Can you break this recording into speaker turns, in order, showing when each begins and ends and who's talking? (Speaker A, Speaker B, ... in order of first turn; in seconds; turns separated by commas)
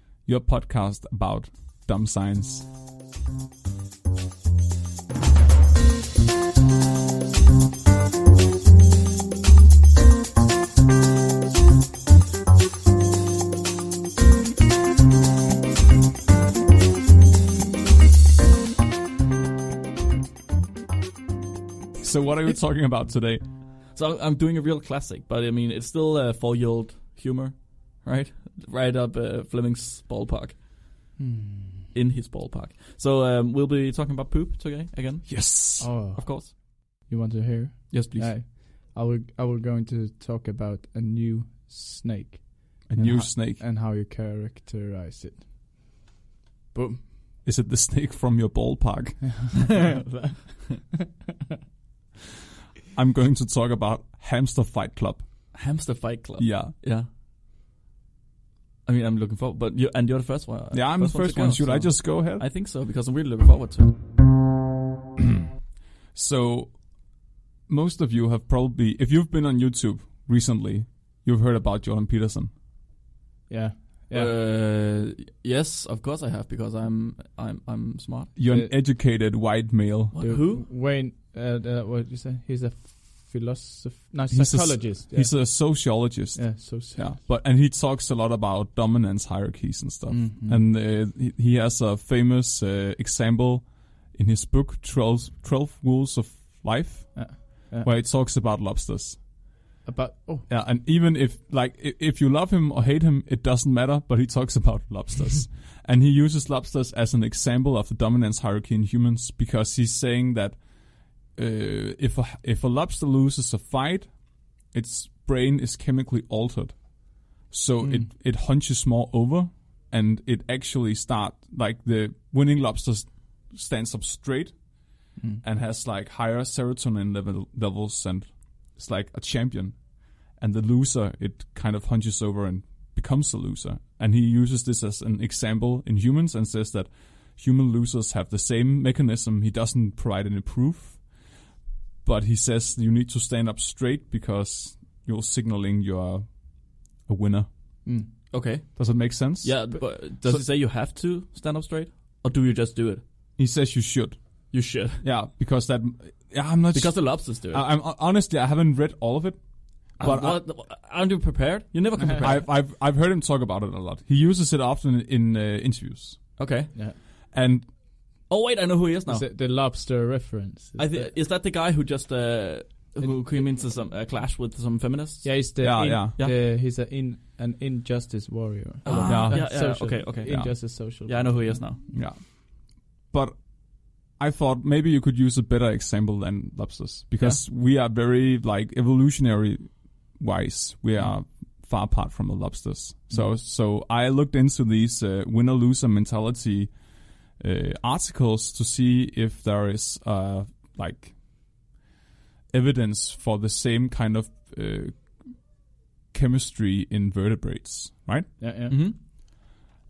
Speaker A: 0.2-2.6, Speaker A: 22.0-23.4, Speaker B: 23.9-30.6, Speaker C: 31.2-31.9, Speaker B: 31.9-35.5, Speaker A: 35.3-35.9, Speaker C: 35.8-45.5, Speaker B: 36.1-36.5, Speaker B: 37.9-38.3, Speaker A: 42.9-43.6, Speaker C: 46.7-47.0, Speaker A: 47.4-49.5, Speaker C: 49.4-51.0, Speaker A: 52.9-55.3, Speaker B: 55.5-57.1, Speaker A: 56.4-56.7, Speaker B: 58.9-63.9, Speaker A: 60.7-62.4, Speaker A: 66.1-67.0, Speaker A: 67.7-72.5, Speaker C: 73.5-74.3, Speaker B: 74.1-78.3, Speaker A: 78.3-80.1, Speaker C: 78.4-78.7, Speaker B: 80.1-80.7, Speaker C: 80.2-85.5, Speaker A: 84.3-99.2, Speaker C: 86.3-87.2, Speaker C: 90.1-90.6, Speaker C: 97.1-97.9, Speaker C: 99.8-100.5, Speaker A: 100.5-124.6, Speaker C: 117.8-118.1, Speaker C: 125.2-125.4, Speaker A: 125.4-141.0, Speaker A: 142.0-147.5, Speaker C: 147.8-148.1, Speaker B: 148.3-153.0, Speaker A: 148.8-149.6, Speaker A: 153.4-160.4, Speaker B: 154.5-155.0, Speaker B: 156.7-157.7, Speaker B: 160.0-162.5, Speaker A: 162.2-166.4, Speaker B: 166.4-166.7, Speaker A: 167.3-167.7, Speaker B: 168.3-169.2, Speaker C: 169.1-171.1, Speaker B: 170.8-176.4, Speaker C: 173.0-173.4, Speaker C: 175.2-182.0, Speaker A: 175.6-176.1, Speaker B: 178.8-181.8, Speaker A: 179.0-180.5, Speaker A: 181.9-196.7, Speaker A: 197.4-201.6, Speaker A: 202.5-205.4, Speaker A: 206.1-208.3, Speaker C: 208.4-208.8, Speaker B: 208.7-208.9